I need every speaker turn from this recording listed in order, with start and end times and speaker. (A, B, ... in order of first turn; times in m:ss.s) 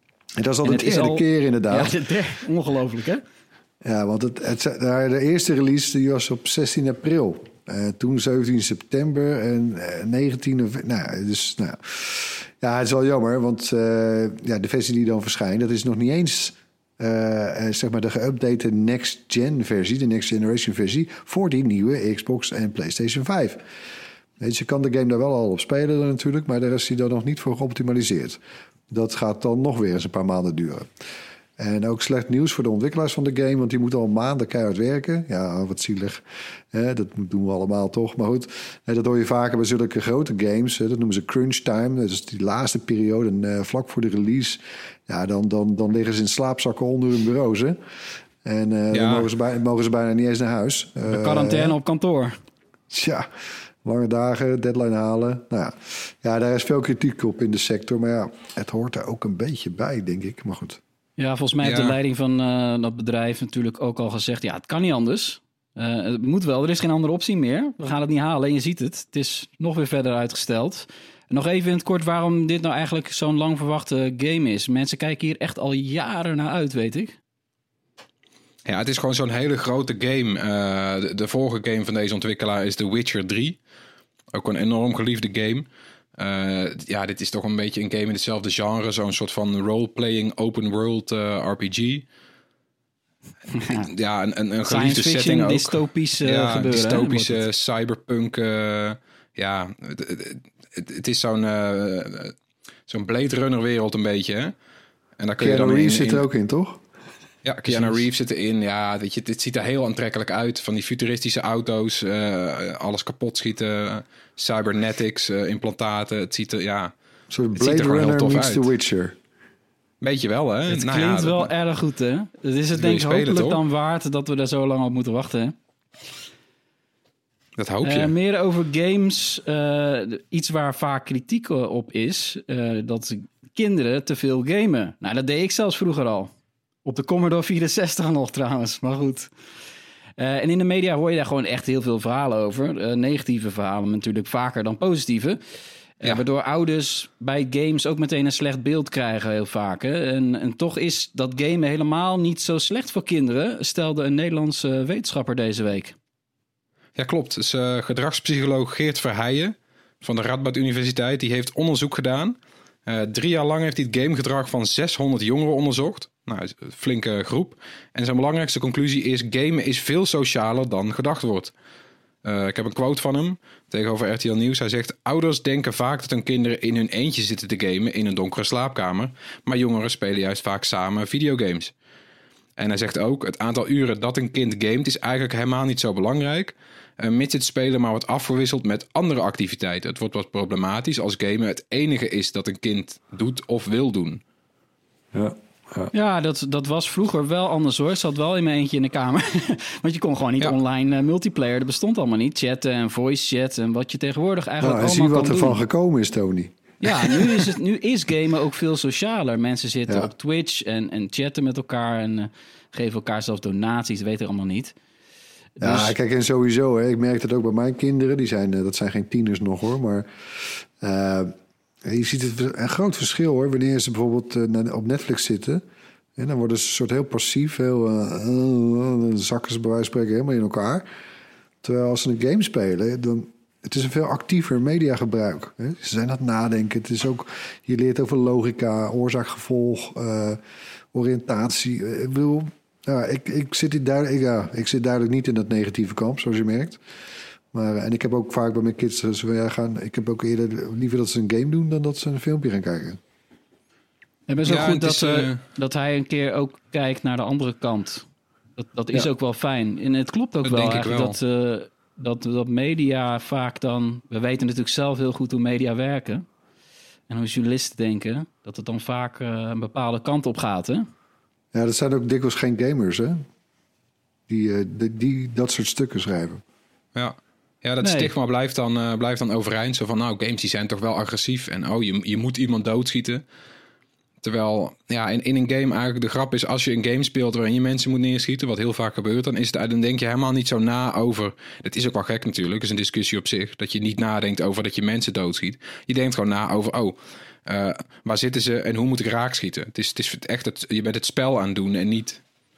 0:00.4-0:01.9 A
0:00.6-0:03.2 B
0:03.8-0:23.6 A
0:24.4-0:28.4 A
0:28.9-0:30.9 A
0:31.6-0:47.8 A
0:48.4-0:51.8 A
0:48.9-0:49.3 C
0:51.1-0:52.3 B
0:52.9-0:53.3 A
0:53.8-1:00.8 A
1:01.2-1:17.2 B
1:01.6-1:02.0 C
1:18.6-1:23.6 C
1:24.3-1:32.0 C
1:33.5-1:33.9 B
1:33.6-1:42.3 C
1:34.6-1:37.4 B
1:42.9-1:44.5 C
1:45.2-1:46.2 C
1:45.4-1:46.8 A
1:47.4-1:56.9 C
1:47.7-1:48.0 A
1:57.3-1:59.2 A
1:57.5-1:58.7 C
2:00.0-2:01.5 C
2:00.7-2:05.5 B
2:02.7-2:03.6 C
2:07.6-2:08.1 C
2:07.8-2:16.3 B
2:16.8-2:19.3 B
2:20.2-2:25.4 B
2:26.0-2:36.0 B
2:37.0-2:51.5 C
2:52.2-3:01.7 C
3:02.6-3:14.2 C
3:15.1-3:15.9 A
3:15.9-3:25.6 B
3:24.6-3:27.5 A
3:26.8-3:34.7 B
3:35.6-3:35.9 B
3:35.6-3:45.6 A
3:46.2-3:50.8 A
3:51.6-4:00.4 A
4:00.9-4:06.8 A
4:07.5-4:13.0 A
4:14.3-4:18.0 B
4:14.4-4:15.4 C
4:18.6-4:26.2 B
4:20.4-4:21.2 C
4:27.1-4:30.9 B
4:31.5-4:33.2 A
4:34.3-4:36.4 A
4:36.9-4:43.2 C
4:37.8-4:38.1 B
4:44.2-5:02.2 C